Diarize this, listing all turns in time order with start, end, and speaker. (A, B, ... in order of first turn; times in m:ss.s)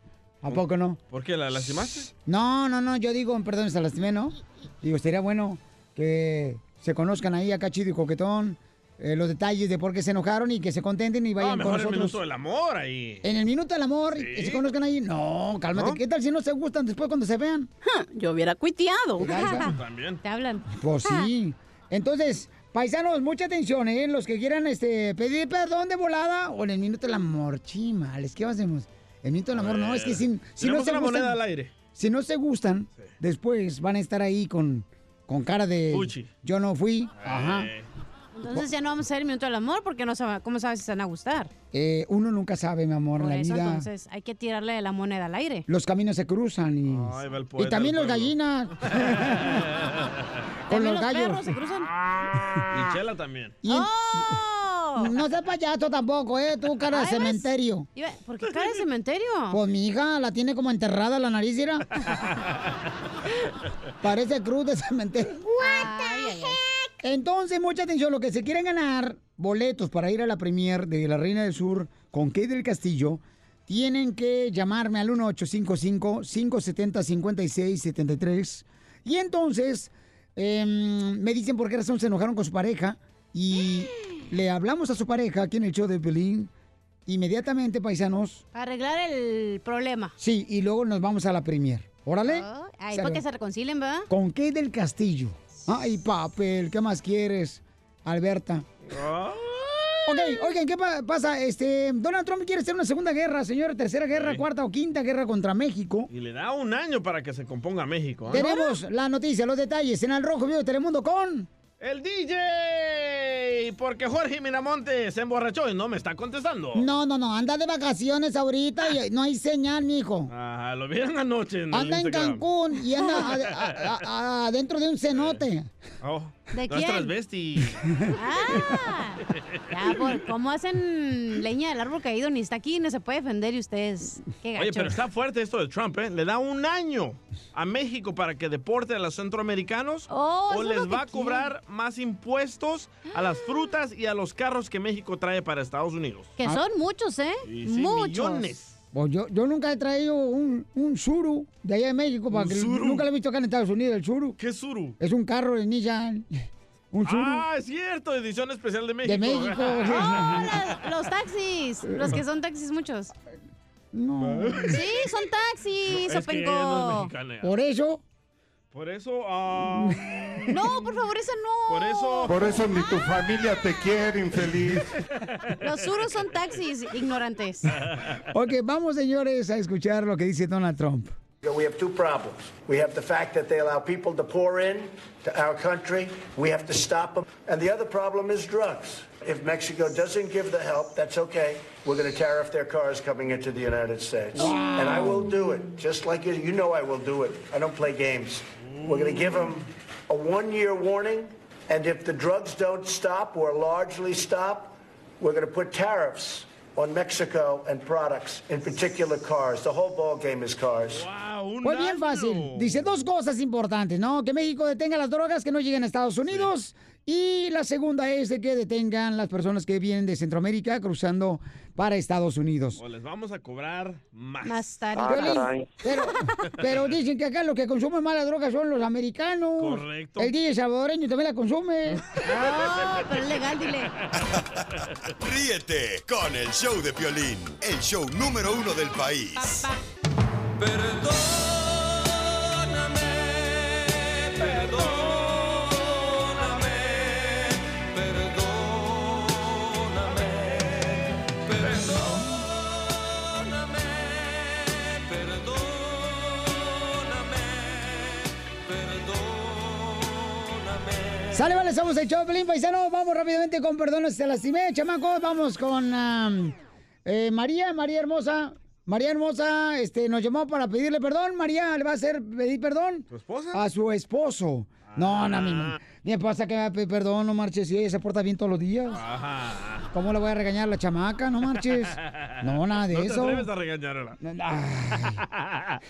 0:00.4-0:01.0 A
0:00.5-0:02.1 B
0:02.2-0:12.2 A
0:11.4-0:13.2 B
0:13.2-0:17.7 A
0:14.1-0:14.6 B
0:15.7-0:16.0 B
0:17.8-0:21.3 C
0:19.2-0:19.7 A
0:19.4-0:20.2 B
0:20.7-0:31.4 A
0:29.5-0:31.7 B
0:31.9-0:37.7 A
0:35.9-0:36.3 B
0:37.2-0:37.9 B
0:38.3-0:41.5 C
0:41.7-0:43.9 A
0:43.2-0:45.7 C
0:45.7-0:49.6 A
0:46.9-0:48.3 B
0:48.9-0:50.2 B
0:50.7-0:51.4 A
0:50.7-0:51.9 C
0:52.6-0:53.6 B
0:53.6-0:54.4 A
0:53.6-0:55.1 C
0:55.0-0:57.9 A
0:56.9-0:59.6 C
0:59.5-1:01.9 A
1:04.0-1:06.2 A
1:05.6-1:06.6 C
1:07.0-1:26.5 A
1:27.1-1:28.4 A
1:28.5-1:30.1 C
1:30.2-1:33.2 A
1:32.2-1:34.1 C
1:34.1-1:38.6 A
1:38.9-1:40.2 B
1:40.0-1:46.1 A
1:44.1-1:44.4 B
1:46.1-1:48.5 B
1:48.3-1:51.5 A
1:48.3-1:48.7 C
1:51.8-1:56.9 B
1:56.7-2:00.3 A
2:00.3-2:02.4 B
2:01.7-2:05.7 A
2:03.0-2:03.8 B
2:05.1-2:05.4 B
2:06.0-2:07.8 B
2:06.5-2:07.1 C
2:08.1-2:15.0 C
2:14.6-2:26.3 B
2:20.1-2:21.5 C
2:26.4-2:28.5 C
2:27.4-2:28.8 B
2:28.9-2:34.4 A
2:32.3-2:33.1 B
2:34.4-2:35.0 B
2:35.0-2:36.2 A
2:36.9-2:37.4 A
2:37.0-2:40.5 B
2:39.0-2:40.5 A
2:39.9-2:43.1 C
2:41.9-2:42.2 A
2:43.9-2:44.8 A
2:44.2-2:45.0 B
2:44.7-2:47.1 C
2:45.9-2:47.5 B
2:47.4-2:48.0 A
2:48.7-2:50.6 B
2:49.8-2:50.0 A
2:50.5-2:52.3 C
2:51.7-2:52.3 B
2:52.2-2:54.8 D
2:55.6-2:57.7 C
2:58.3-3:01.1 A
3:01.4-3:31.0 E
3:14.3-3:15.4 A
3:18.7-3:19.1 B
3:30.9-3:32.9 B
3:31.6-3:42.8 A
3:42.8-3:44.8 B
3:44.4-3:45.5 C
3:45.0-3:52.0 A
3:46.6-3:46.9 B
3:49.6-3:50.3 B
3:52.2-3:53.9 C
3:52.3-3:52.5 B
3:55.2-3:59.6 F
4:04.6-4:04.9 B
4:21.3-4:39.0 A
4:33.1-4:33.6 B
4:34.9-4:35.8 B
4:38.9-4:39.9 B
4:39.9-4:43.5 A
4:41.9-4:44.2 B
4:44.2-4:45.2 A
4:45.3-4:45.8 B